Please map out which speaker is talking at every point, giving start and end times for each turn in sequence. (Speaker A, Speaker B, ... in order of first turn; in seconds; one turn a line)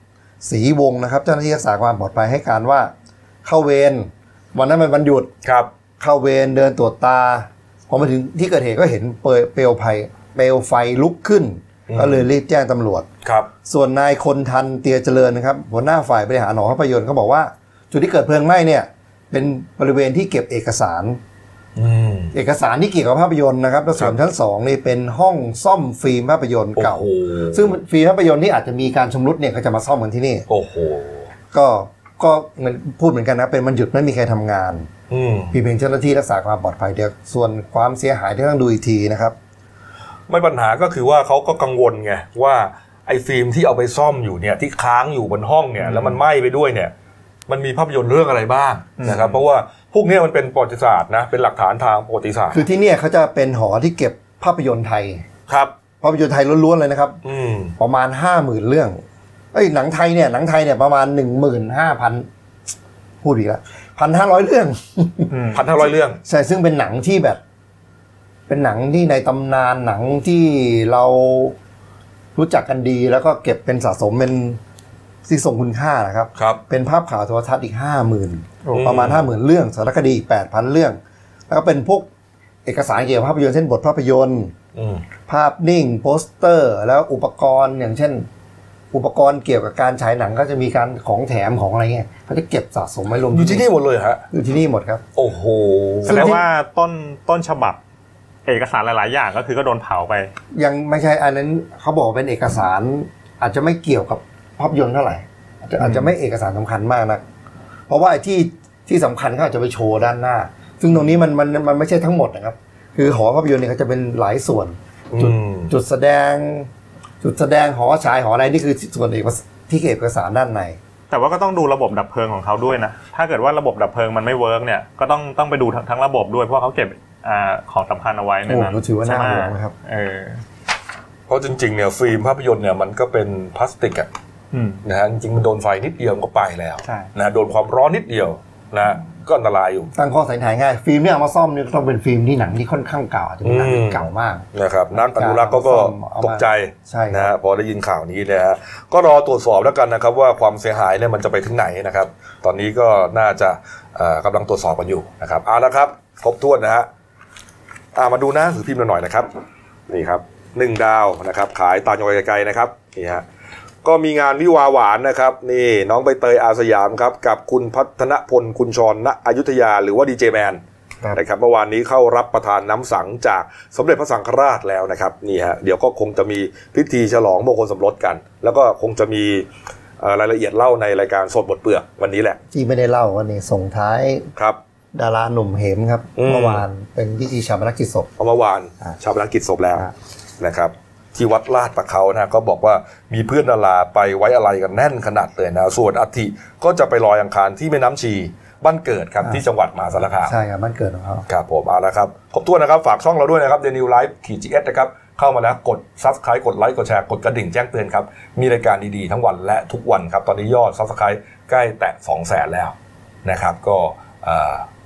Speaker A: 0.4-2.9
Speaker A: 3.4-5.3
Speaker B: 5.4-5.7
Speaker A: 6.0-13.1
Speaker B: 11.9-12.2
Speaker B: 13.2-13.5
Speaker A: 13.6-21.2
Speaker B: 21.8-22.3
Speaker A: 22.3-30.4
Speaker B: 26.8-27.7
Speaker B: 30.5-31.2
Speaker A: 31.5-34.9
Speaker B: 35.1-35.5
Speaker A: 35.5-39.4
Speaker B: 40.3-46.9
Speaker C: 45.8-46.2
Speaker B: 47.5-52.6
Speaker C: 49.0-49.4
Speaker A: 52.5-55.2
Speaker B: 55.5-55.7
Speaker A: 56.0-57.2
Speaker B: 57.2-57.7
Speaker A: 57.8-59.0
Speaker A: 59.5-62.3
Speaker A: 63.2-65.3
Speaker C: 65.3-65.6
Speaker B: 65.5-66.2
Speaker A: 66.2-67.4
Speaker A: 68.5-71.5
Speaker A: 72.3-74.6
Speaker A: 75.2-82.1
Speaker B: 76.3-76.6
Speaker C: 78.6-79.0
Speaker B: 78.7-79.3
Speaker A: 82.6-84.5
Speaker B: 84.8-85.0
Speaker A: 85.3-88.3
Speaker A: 88.9-93.7
Speaker B: 93.3-94.2
Speaker A: 94.3-95.0
Speaker B: 95.2-96.4
Speaker C: 96.0-97.8
Speaker A: 96.1-96.4
Speaker C: 98.5-100.3
Speaker A: 100.5-107.2
Speaker C: 105.8-106.1
Speaker A: 107.9-116.7
Speaker B: 115.1-115.7
Speaker A: 117.2-120.8
Speaker C: 121.1-130.4
Speaker A: 128.4-129.7
Speaker B: 131.3-134.1
Speaker C: 134.5-134.8
Speaker B: 134.8-139.9
Speaker A: 139.9-147.3
Speaker B: 143.4-156.9
Speaker B: 157.9-159.3
Speaker B: 159.9-163.2
Speaker B: 163.8-170.6
Speaker B: 171.1-179.5
Speaker B: 180.0-182.4
Speaker A: 182.5-184.3
Speaker A: 184.9-188.1
Speaker B: 186.2-186.6
Speaker B: 188.2-200.3
Speaker A: 200.2-201.2
Speaker B: 201.3-214.7